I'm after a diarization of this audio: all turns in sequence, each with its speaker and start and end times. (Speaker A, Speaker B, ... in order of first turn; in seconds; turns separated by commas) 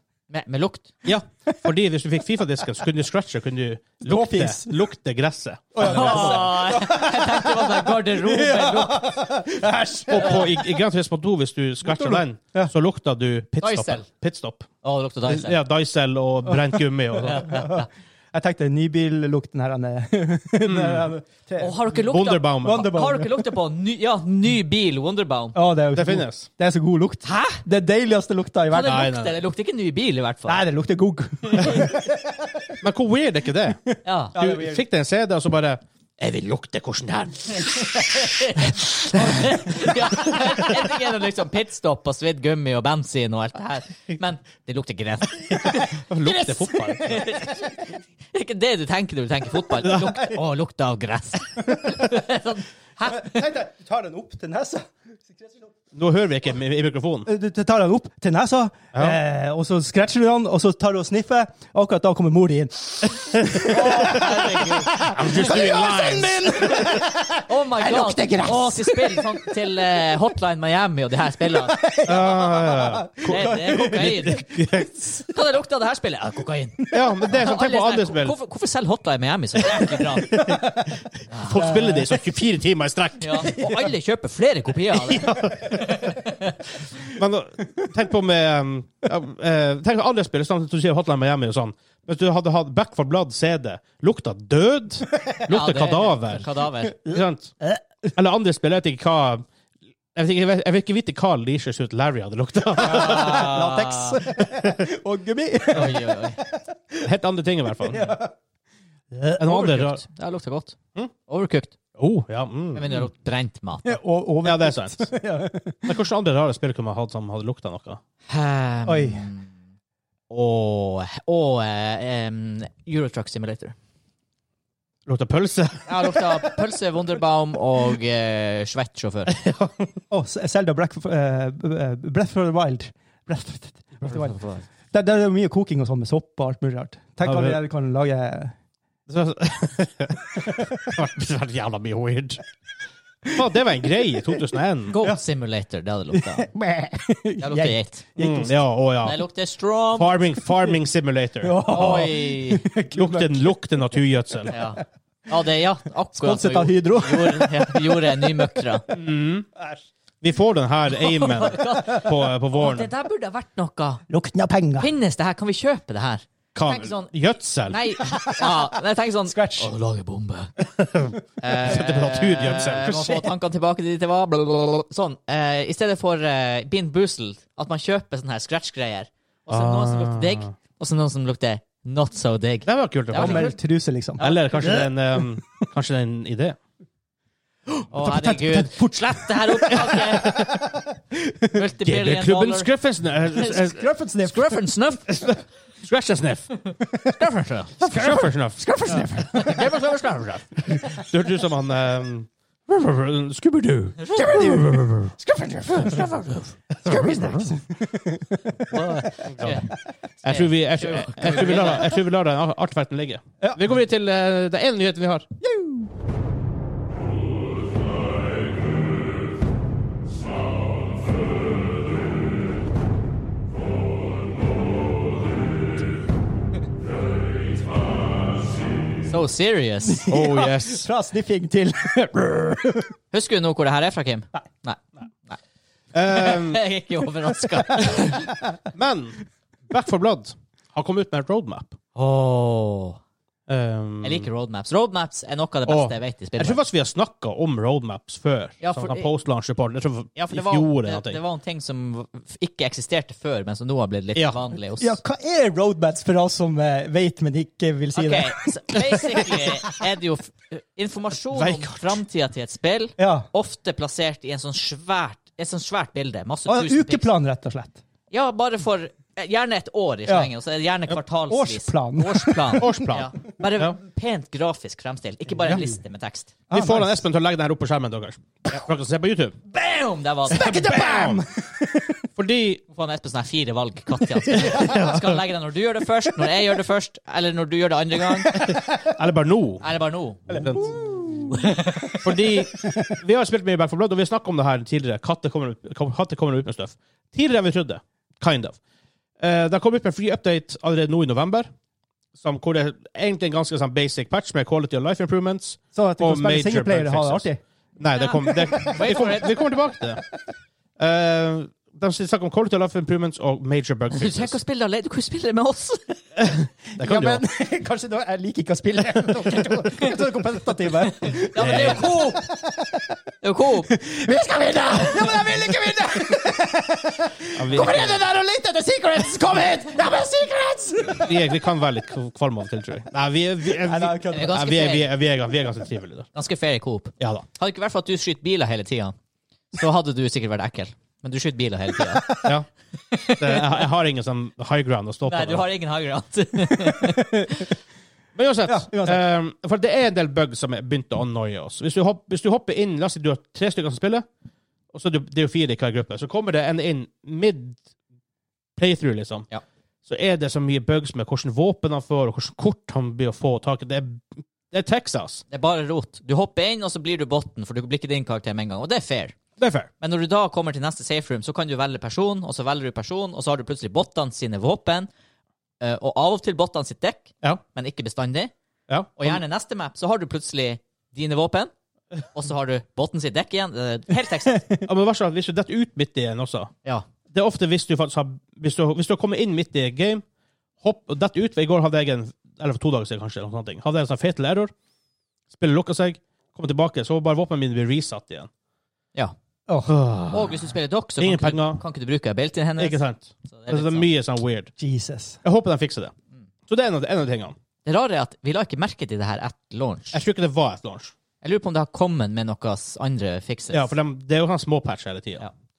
Speaker A: 0.3-0.9, Speaker B: 1.0-6.8, Speaker C: 4.0-4.8, Speaker C: 5.7-10.7, Speaker A: 5.8-9.1, Speaker B: 10.1-14.7, Speaker C: 11.8-12.7, Speaker A: 13.6-14.1, Speaker A: 14.8-15.6, Speaker B: 15.3-17.6, Speaker C: 16.4-22.0, Speaker A: 17.2-17.9, Speaker B: 20.6-21.1, Speaker A: 21.6-25.6, Speaker B: 21.9-22.9, Speaker C: 22.6-23.5, Speaker C: 25.5-29.1, Speaker B: 25.9-26.5, Speaker A: 27.2-27.6, Speaker A: 28.7-30.6, Speaker B: 28.9-29.4, Speaker C: 30.4-32.8, Speaker A: 31.5-31.9, Speaker B: 31.6-31.9, Speaker B: 32.8-33.8, Speaker C: 33.9-34.8, Speaker A: 34.0-34.4, Speaker B: 34.3-39.5, Speaker A: 38.1-47.8, Speaker B: 45.7-47.3, Speaker A: 48.3-53.4, Speaker C: 49.8-50.4, Speaker B: 49.8-50.1, Speaker C: 53.0-55.7, Speaker B: 55.9-57.3, Speaker C: 57.2-69.5, Speaker A: 63.6-65.0, Speaker B: 64.9-66.8, Speaker A: 66.5-71.8, Speaker C: 71.5-74.4, Speaker B: 72.0-74.9, Speaker A: 73.2-74.5, Speaker A: 75.0-80.4, Speaker B: 76.9-78.3, Speaker C: 79.7-80.9, Speaker A: 81.3-81.7, Speaker B: 81.4-83.6, Speaker C: 81.5-82.2, Speaker A: 83.2-86.6, Speaker C: 83.5-83.9, Speaker B: 84.9-86.2, Speaker B: 86.9-96.5, Speaker A: 95.5-97.0, Speaker B: 97.0-97.5, Speaker C: 97.0-98.1, Speaker B: 98.1-99.5, Speaker B: 100.1-103.5, Speaker C: 102.8-107.1, Speaker A: 102.8-104.2, Speaker B: 104.4-104.8, Speaker A: 105.7-106.4, Speaker B: 107.0-108.1, Speaker C: 107.8-108.3, Speaker C: 109.1-109.4, Speaker B: 109.4-110.0, Speaker A: 109.4-111.7, Speaker B: 112.0-113.0, Speaker A: 112.7-114.0, Speaker C: 113.8-116.0, Speaker B: 114.4-115.1, Speaker B: 115.9-118.0, Speaker A: 118.3-119.5, Speaker C: 118.9-119.3, Speaker A: 120.3-123.7, Speaker B: 125.1-126.5, Speaker A: 125.9-129.3, Speaker B: 129.3-129.8, Speaker C: 130.1-134.4, Speaker A: 134.1-134.6, Speaker C: 134.9-138.6, Speaker B: 137.2-137.6, Speaker B: 139.1-142.4, Speaker C: 140.4-140.6, Speaker B: 143.3-145.0, Speaker C: 144.2-145.2, Speaker A: 144.9-146.5, Speaker C: 146.1-148.5, Speaker A: 147.4-148.0, Speaker B: 148.2-149.2, Speaker A: 149.0-150.2, Speaker B: 149.9-151.6, Speaker C: 151.4-153.6, Speaker A: 151.6-152.7, Speaker B: 152.9-154.6, Speaker A: 154.5-158.9, Speaker C: 156.1-158.9, Speaker B: 158.9-159.5, Speaker B: 160.2-162.9, Speaker A: 160.9-164.0, Speaker C: 164.1-164.9, Speaker A: 164.8-167.1, Speaker B: 166.5-167.8, Speaker A: 167.7-170.5, Speaker C: 168.1-168.7, Speaker C: 169.2-169.7, Speaker B: 170.8-173.1, Speaker A: 171.4-183.6, Speaker C: 172.8-173.2, Speaker B: 179.5-180.4, Speaker B: 182.6-183.5, Speaker C: 183.1-185.4, Speaker A: 184.2-184.5, Speaker B: 184.2-186.6, Speaker C: 187.7-191.5, Speaker A: 187.9-190.5, Speaker A: 191.5-192.7, Speaker B: 191.8-193.9, Speaker C: 193.4-194.6, Speaker A: 194.2-195.2, Speaker B: 195.1-196.5, Speaker A: 197.1-198.1, Speaker C: 197.8-199.5, Speaker B: 197.8-205.1, Speaker A: 198.8-200.8, Speaker A: 204.0-204.4, Speaker C: 204.2-206.2, Speaker A: 205.7-207.4, Speaker C: 206.8-209.1, Speaker B: 206.9-207.4, Speaker A: 208.7-211.9, Speaker B: 209.2-209.6, Speaker B: 210.2-215.3, Speaker C: 215.4-215.9, Speaker A: 229.1-230.1, Speaker C: 229.8-232.9, Speaker B: 230.1-230.9, Speaker A: 233.1-235.4, Speaker B: 235.9-236.6, Speaker A: 236.1-238.4, Speaker C: 237.5-238.1, Speaker B: 238.7-241.7, Speaker A: 241.9-243.0, Speaker B: 243.5-244.3, Speaker A: 244.0-246.6, Speaker B: 245.7-251.2, Speaker A: 248.6-249.1, Speaker A: 250.2-255.0, Speaker C: 254.8-259.7, Speaker A: 257.9-267.1, Speaker B: 261.3-262.0, Speaker C: 263.0-263.3, Speaker C: 266.5-267.8, Speaker A: 268.1-276.3, Speaker C: 271.3-272.9, Speaker B: 272.6-273.7, Speaker C: 275.4-275.7, Speaker C: 276.5-277.0, Speaker B: 276.5-279.4, Speaker A: 279.5-280.6, Speaker C: 280.3-282.0, Speaker B: 280.4-281.2, Speaker B: 282.1-282.6, Speaker A: 282.7-288.5, Speaker C: 284.2-284.9, Speaker B: 284.5-285.0, Speaker C: 288.2-289.0, Speaker B: 288.9-289.7, Speaker A: 289.6-290.6, Speaker B: 290.3-290.8, Speaker C: 290.3-292.9, Speaker A: 291.2-292.1, Speaker B: 292.0-298.6, Speaker B: 299.2-301.5, Speaker B: 302.1-307.3, Speaker C: 305.7-307.4, Speaker B: 307.8-310.0, Speaker A: 307.9-309.5, Speaker C: 308.1-309.2, Speaker B: 310.8-314.4, Speaker A: 313.9-316.1, Speaker B: 316.2-317.2, Speaker C: 316.7-323.0, Speaker A: 320.9-322.3, Speaker B: 321.4-321.8, Speaker A: 323.2-323.7, Speaker C: 323.7-331.3, Speaker B: 327.4-328.0, Speaker B: 331.0-336.1, Speaker C: 333.4-334.4, Speaker A: 334.1-334.9, Speaker A: 336.1-338.9, Speaker B: 337.0-337.2, Speaker A: 339.5-342.2, Speaker C: 341.8-342.3, Speaker A: 342.9-343.5, Speaker B: 343.2-345.4, Speaker A: 345.1-347.5, Speaker C: 346.7-347.4, Speaker B: 348.1-354.1, Speaker C: 348.4-349.0, Speaker B: 354.7-357.6, Speaker B: 358.6-359.3, Speaker B: 359.9-365.2, Speaker A: 365.3-369.2, Speaker B: 369.4-369.7, Speaker A: 369.8-374.9, Speaker A: 375.6-378.3, Speaker B: 378.7-379.2, Speaker A: 379.0-381.5, Speaker A: 382.1-384.6, Speaker B: 384.6-386.5, Speaker B: 387.1-390.0, Speaker B: 390.6-394.5, Speaker B: 395.3-398.3, Speaker C: 399.5-399.8, Speaker B: 399.6-401.6, Speaker A: 400.1-403.9, Speaker B: 402.6-404.5, Speaker C: 404.6-405.2, Speaker B: 405.2-405.9, Speaker B: 406.5-407.4, Speaker A: 407.6-410.0, Speaker B: 409.9-410.9, Speaker A: 411.2-413.7, Speaker B: 413.5-415.3